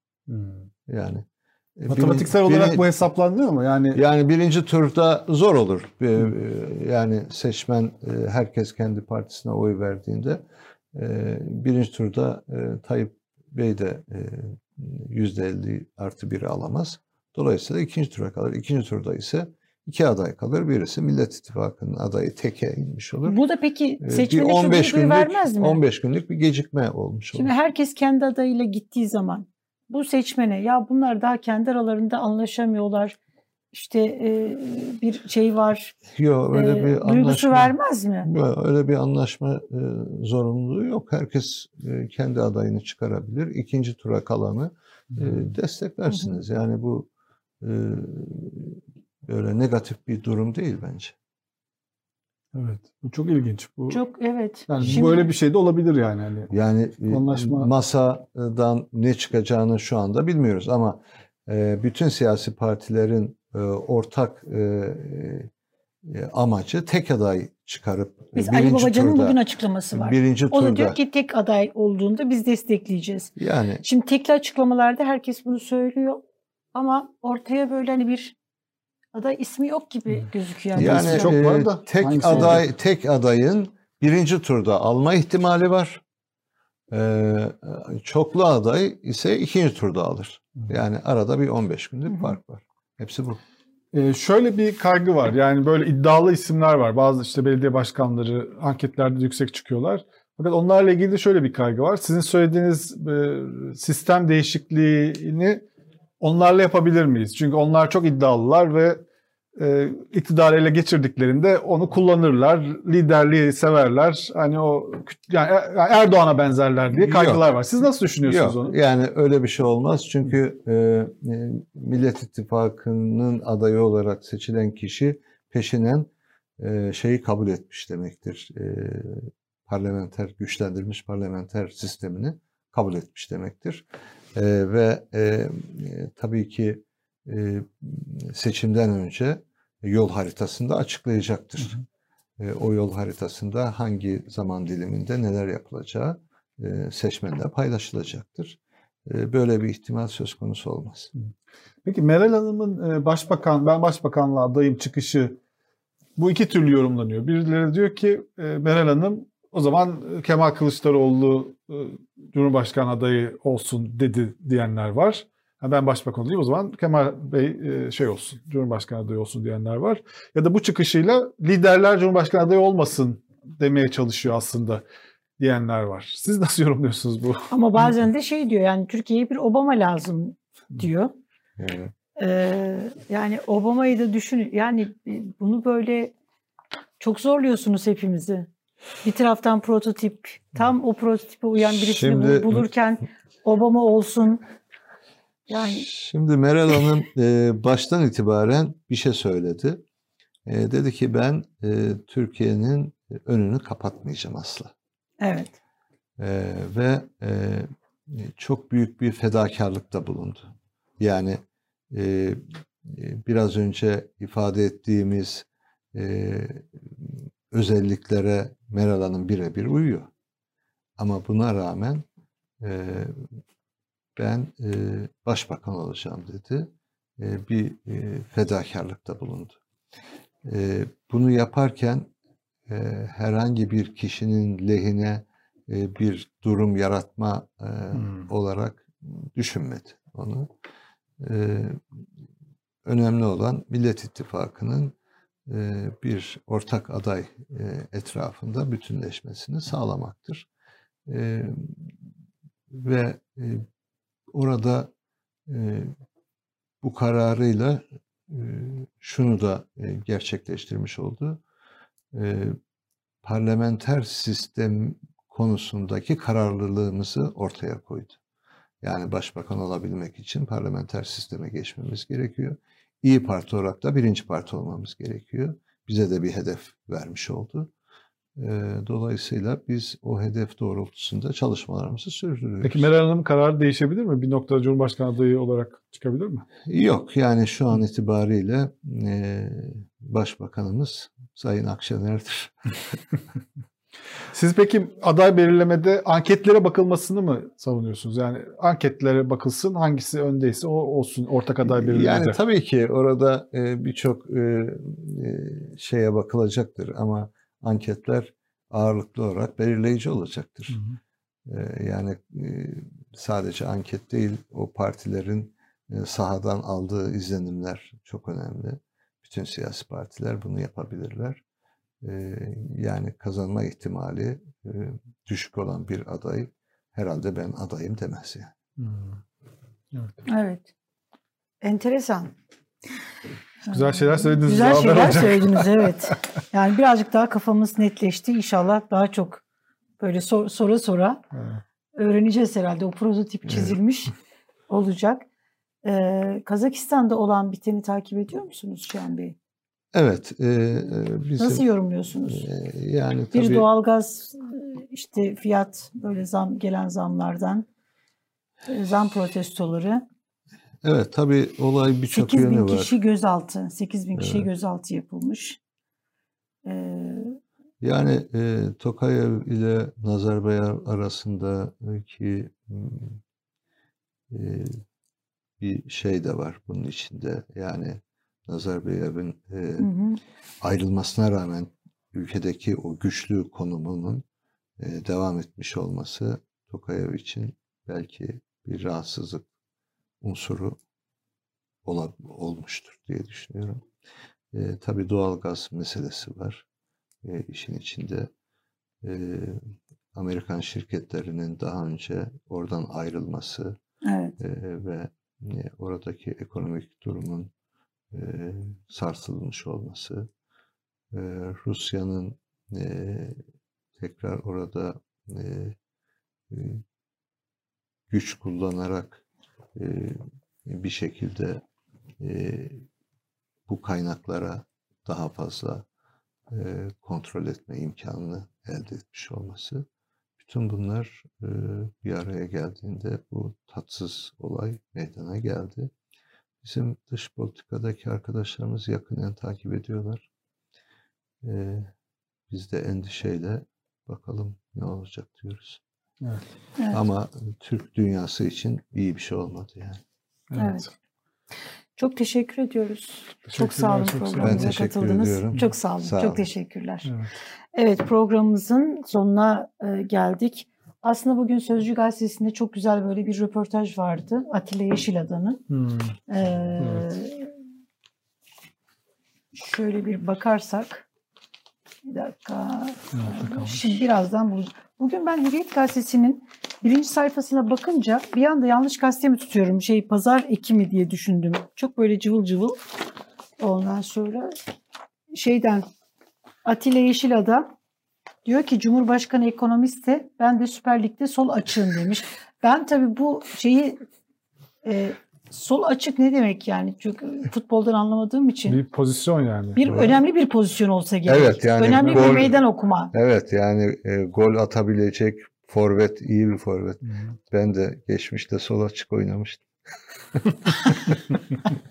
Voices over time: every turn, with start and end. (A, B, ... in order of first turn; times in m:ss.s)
0:00.3-0:00.7 A
0:00.9-0:01.2 B
0:01.8-0:02.8 B
0:01.9-0:04.0 A
0:03.9-0:10.4 B
0:10.9-0:23.4 B
0:23.2-0:25.8 C
0:24.0-0:27.5 B
0:27.3-0:33.2 C
0:33.7-0:36.0 C
0:36.1-0:47.1 B
0:36.5-0:38.3 C
0:45.1-0:45.5 A
0:46.1-0:46.4 C
0:47.6-0:51.1 B
0:52.5-0:54.0 A
0:53.9-0:55.3 C
0:54.7-0:56.5 A
0:56.5-1:05.5 B
0:57.0-0:57.7 A
1:06.0-1:09.4 B
1:08.3-1:16.2 C
1:09.9-1:11.0 B
1:13.4-1:13.8 B
1:16.7-1:18.4 C
1:19.1-1:21.3 C
1:20.8-1:22.7 A
1:20.8-1:26.0 B
1:26.9-1:33.4 B
1:32.1-1:32.3 C
1:33.9-1:45.6 A
1:46.2-1:49.0 A
1:49.6-1:58.7 A
1:56.9-1:57.5 B
1:58.2-2:21.8 B
2:22.4-2:31.1 B
2:31.8-2:35.4 A
2:36.2-2:54.8 A
2:55.4-2:57.9 A
2:57.5-3:01.1 C
3:01.6-3:01.9 B
3:02.2-3:06.1 C
3:07.0-3:08.5 C
3:09.0-3:14.4 C
3:11.7-3:12.7 B
3:15.5-3:15.8 C
3:15.5-3:19.8 B
3:20.4-3:24.7 B
3:25.2-3:25.6 C
3:26.2-3:30.4 B
3:31.0-3:31.4 B
3:31.9-3:40.1 B
3:41.0-3:42.0 B
3:42.6-3:43.2 B
3:44.2-3:49.6 B
3:50.4-3:52.1 B
3:52.7-4:00.5 B
3:57.9-3:58.3 A
4:01.2-4:01.8 B
4:02.8-4:04.9 B
4:05.5-4:10.5 B
4:11.1-4:11.9 B
4:12.7-4:13.6 B
4:14.3-4:14.9 B
4:15.5-4:15.9 B
4:16.8-4:21.4 B
4:22.1-4:22.6 B
4:23.2-4:28.2 B
4:28.8-4:37.7 B
4:38.4-4:42.9 B
4:42.6-4:46.4 A
4:46.6-4:52.7 B
4:54.3-5:02.4 A
5:01.7-5:10.8 B
5:11.5-5:21.4 B
5:22.0-5:28.5 B
5:28.8-5:29.2 A
5:29.9-5:30.2 A
5:30.2-5:30.7 C
5:31.6-5:32.3 C
5:33.6-5:39.4 C
5:33.7-5:36.1 A
5:40.0-5:41.2 C
5:41.3-5:41.6 A
5:42.0-5:44.1 C
5:44.7-5:45.2 C
5:45.8-5:49.4 C
5:49.9-5:51.6 B
5:51.4-5:52.5 C
5:52.2-5:53.7 B
5:53.3-5:57.7 C
5:58.7-6:00.0 C
6:00.8-6:03.0 B
6:02.1-6:05.6 C
6:04.2-6:04.5 B
6:06.6-6:07.4 C
6:07.8-6:13.2 B
6:14.3-6:14.8 B
6:15.6-6:19.9 B
6:19.8-6:20.2 C
6:20.6-6:24.2 B
6:24.8-6:29.4 B
6:30.2-6:30.8 B
6:31.8-6:33.8 B
6:34.5-6:36.6 B
6:37.2-6:38.3 B
6:39.0-6:39.6 B
6:40.1-6:43.8 B
6:44.0-6:44.4 C
6:44.4-6:47.5 B
6:48.1-6:50.3 B
6:51.1-6:53.4 B
6:54.0-6:55.8 B
6:56.5-6:56.8 B
6:58.1-6:59.2 B
6:59.7-7:01.6 B
7:02.2-7:02.8 B
7:03.7-7:05.8 B
7:06.5-7:09.8 B
7:10.4-7:15.9 B
7:16.6-7:20.2 B
7:21.4-7:21.9 B
7:22.5-7:25.8 B
7:26.9-7:30.0 B
7:30.5-7:30.8 A
7:30.5-7:30.9 C
7:32.0-7:37.1 C
7:33.5-7:34.8 A
7:34.4-7:36.4 B
7:37.0-7:37.3 A
7:37.7-7:45.6 C
7:45.7-7:46.2 A
7:46.3-7:47.5 C
7:46.8-7:47.1 A
7:49.5-7:51.0 C
7:52.0-8:02.8 C
7:53.1-7:53.9 A
8:03.6-8:04.5 C
8:05.3-8:05.8 C
8:06.6-8:07.7 C
8:08.4-8:14.0 C
8:14.8-8:18.8 C
8:18.7-8:20.1 A
8:19.8-8:23.1 C
8:19.8-8:20.1 B
8:21.3-8:22.6 B
8:21.9-8:22.5 A
8:23.1-8:29.6 B
8:30.7-8:31.1 B